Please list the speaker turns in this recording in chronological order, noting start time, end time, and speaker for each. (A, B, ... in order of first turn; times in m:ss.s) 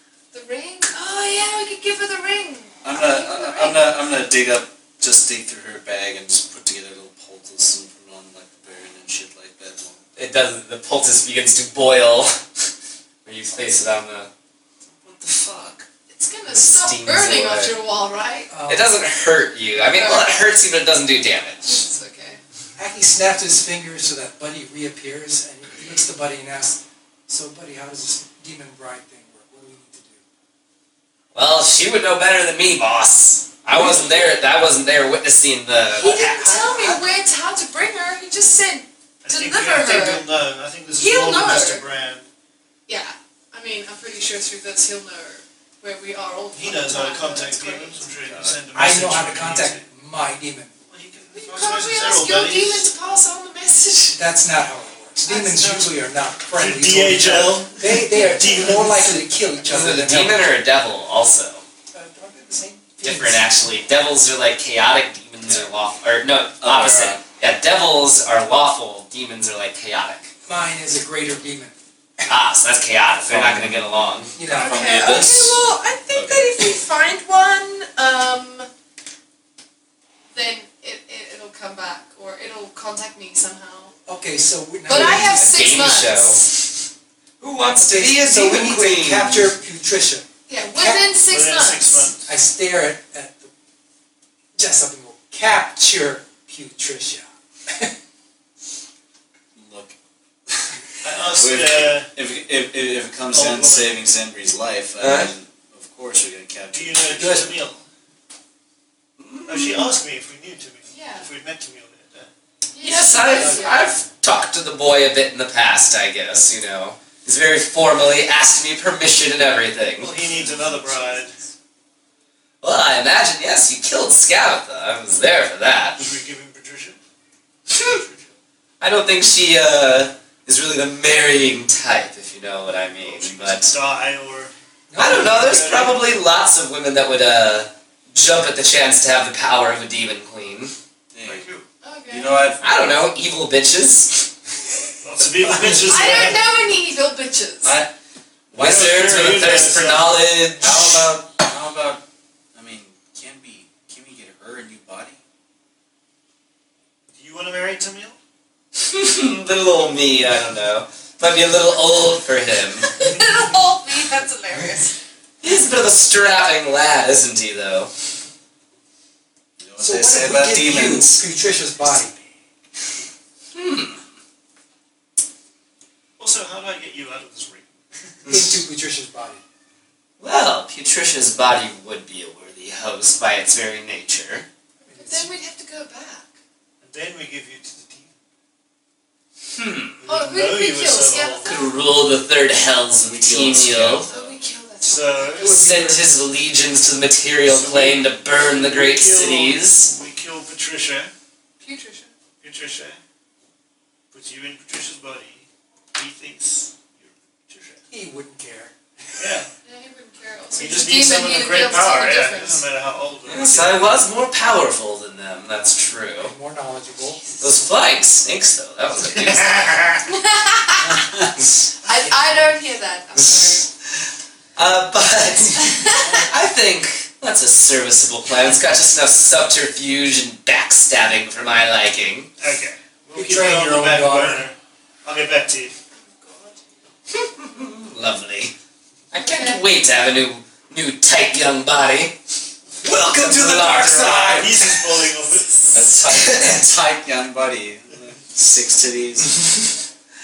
0:00.3-0:03.9 A
0:02.8-0:10.0 B
0:10.2-0:12.4 C
0:13.2-0:14.3 C
0:15.0-0:15.8 C
0:16.1-0:18.5 A
0:16.5-0:17.8 C
0:18.5-0:18.9 D
0:18.7-0:21.8 C
0:19.9-0:20.4 A
0:21.6-0:22.4 A
0:22.8-0:30.2 D
0:31.3-0:36.5 C
0:36.0-0:40.2 A
0:36.0-0:37.0 D
0:39.2-0:42.3 E
0:40.9-0:41.8 A
0:42.9-0:48.0 A
0:46.5-0:49.8 E
0:48.3-0:48.6 B
0:48.7-0:50.7 D
0:50.9-0:52.9 E
0:51.3-0:54.2 A
0:54.1-1:00.5 D
0:55.2-0:56.0 A
0:56.5-0:59.3 E
0:59.6-1:01.6 C
1:01.9-1:03.5 D
1:03.0-1:10.3 C
1:06.6-1:07.2 B
1:10.4-1:11.7 D
1:12.3-1:14.4 C
1:13.3-1:13.8 B
1:14.4-1:14.9 D
1:14.5-1:18.7 A
1:14.5-1:16.5 B
1:20.3-1:23.9 A
1:24.1-1:25.5 D
1:24.8-1:26.4 A
1:24.9-1:26.6 C
1:27.4-1:29.6 C
1:27.6-1:30.2 D
1:30.5-1:32.1 A
1:31.2-1:32.2 E
1:32.2-1:33.5 D
1:34.6-1:37.9 D
1:39.5-1:40.0 B
1:40.5-1:40.8 B
1:41.0-1:42.1 E
1:41.3-1:47.4 B
1:43.3-1:44.0 E
1:45.0-1:45.3 C
1:46.7-1:47.8 E
1:47.2-1:47.5 D
1:49.2-1:49.9 C
1:49.5-1:52.3 E
1:50.9-1:51.3 A
1:52.7-1:53.9 A
1:52.8-2:00.1 C
1:53.4-1:53.7 E
2:00.0-2:01.4 E
2:00.4-2:01.2 D
2:02.6-2:06.0 C
2:06.0-2:07.0 E
2:07.7-2:08.0 C
2:07.7-2:08.3 E
2:08.8-2:13.7 C
2:13.0-2:16.1 E
2:14.9-2:15.8 D
2:15.0-2:20.7 C
2:21.1-2:21.4 B
2:21.2-2:21.6 E
2:21.8-2:22.4 A
2:22.1-2:22.6 B
2:22.6-2:24.3 C
2:25.0-2:26.4 E
2:25.4-2:26.2 D
2:25.8-2:27.8 A
2:27.6-2:27.9 B
2:28.5-2:30.9 C
2:28.5-2:30.2 E
2:30.6-2:32.0 B
2:32.5-2:35.2 B
2:37.1-2:38.2 E
2:38.8-2:42.9 C
2:42.8-2:45.0 A
2:45.4-2:47.9 C
2:49.6-2:51.1 B
2:49.8-2:52.2 D
2:50.6-2:51.2 C
2:53.5-2:54.0 C
2:56.2-2:58.6 E
2:58.2-2:59.4 D
3:00.2-3:04.4 C
3:04.8-3:05.3 D
3:05.0-3:06.3 A
3:06.8-3:08.1 E
3:09.5-3:10.0 C
3:10.0-3:11.5 E
3:10.0-3:11.7 A
3:11.4-3:14.1 C
3:13.0-3:14.4 B
3:14.1-3:15.4 A
3:14.8-3:15.6 E
3:15.3-3:16.1 D
3:15.4-3:19.9 C
3:17.4-3:21.1 E
3:21.6-3:22.1 A
3:22.4-3:23.0 E
3:24.1-3:27.8 E
3:27.9-3:29.4 D
3:29.2-3:29.5 E
3:29.6-3:32.6 A
3:30.6-3:33.8 E
3:33.3-3:36.3 C
3:36.2-3:37.5 D
3:37.4-3:40.0 C
3:40.1-3:41.0 A
3:40.8-3:41.3 B
3:41.4-3:42.5 C
3:41.8-3:43.6 A
3:43.2-3:52.3 C
3:45.6-3:46.2 A
3:52.4-3:55.7 E
3:53.1-3:54.4 D
3:56.0-3:56.6 A
3:57.1-3:58.5 C
3:59.1-4:02.2 C
3:59.1-3:59.6 A
4:02.8-4:04.5 C
4:02.8-4:05.1 D
4:04.1-4:05.9 E
4:05.7-4:09.4 B
4:05.8-4:06.6 C